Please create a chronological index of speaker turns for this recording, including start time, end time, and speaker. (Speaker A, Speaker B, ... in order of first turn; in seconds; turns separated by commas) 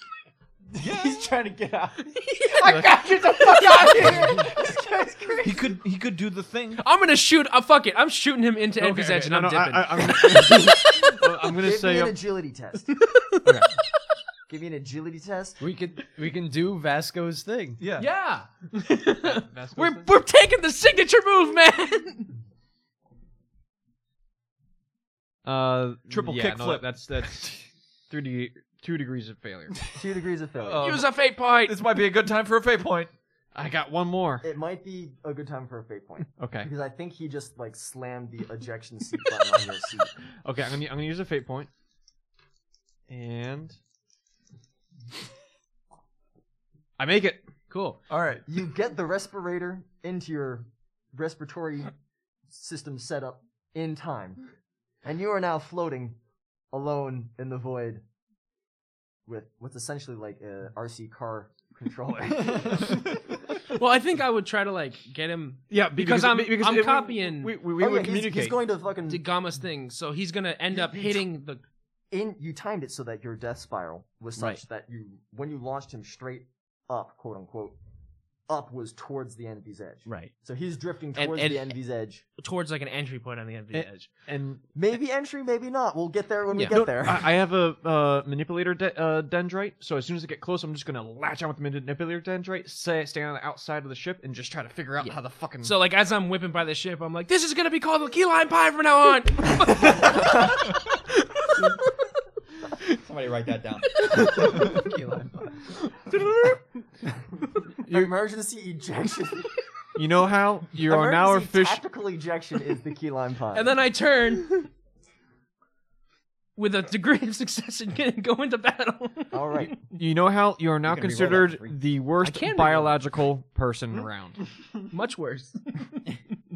Speaker A: 0.7-2.0, Speaker B: 2.0-4.4, Speaker A: 2.5-5.7, Speaker C: 5.4-6.8, Speaker B: 6.7-11.2, Speaker D: 8.8-12.2, Speaker E: 11.6-12.9, Speaker B: 13.0-13.6, Speaker E: 14.5-15.6, Speaker F: 15.6-17.8, Speaker C: 17.8-18.1, Speaker B: 17.9-22.3, Speaker D: 19.2-20.1, Speaker D: 25.4-29.9, Speaker C: 26.1-27.5, Speaker E: 29.9-30.9, Speaker C: 30.6-33.1, Speaker B: 30.8-31.9, Speaker D: 33.5-34.5, Speaker E: 34.4-40.1, Speaker D: 36.4-36.7, Speaker D: 40.4-41.7, Speaker D: 43.1-43.8, Speaker D: 47.0-47.5, Speaker B: 47.7-48.0, Speaker C: 48.1-48.5, Speaker E: 48.5-51.9, Speaker E: 52.5-54.5, Speaker E: 55.0-56.2, Speaker E: 56.7-58.0, Speaker E: 59.3-63.0, Speaker B: 63.7-67.6, Speaker D: 65.7-68.6, Speaker E: 67.8-69.2, Speaker B: 69.1-71.6, Speaker E: 70.7-71.2, Speaker E: 72.1-77.8, Speaker B: 74.3-74.6, Speaker E: 78.5-82.2, Speaker B: 80.1-80.3, Speaker B: 81.1-81.7, Speaker B: 82.4-84.1, Speaker D: 83.7-84.6, Speaker E: 84.7-87.3, Speaker B: 86.5-86.9, Speaker D: 86.6-95.7, Speaker B: 95.0-100.6, Speaker G: 103.0-104.2, Speaker B: 104.0-106.7, Speaker D: 107.8-108.1, Speaker E: 107.9-109.5, Speaker D: 109.9-111.8, Speaker E: 110.8-113.8, Speaker B: 113.5-114.7, Speaker B: 116.5-120.0, Speaker E: 119.3-119.7, Speaker D: 120.0-124.4, Speaker G: 120.8-121.8, Speaker B: 122.2-123.0, Speaker B: 124.9-126.0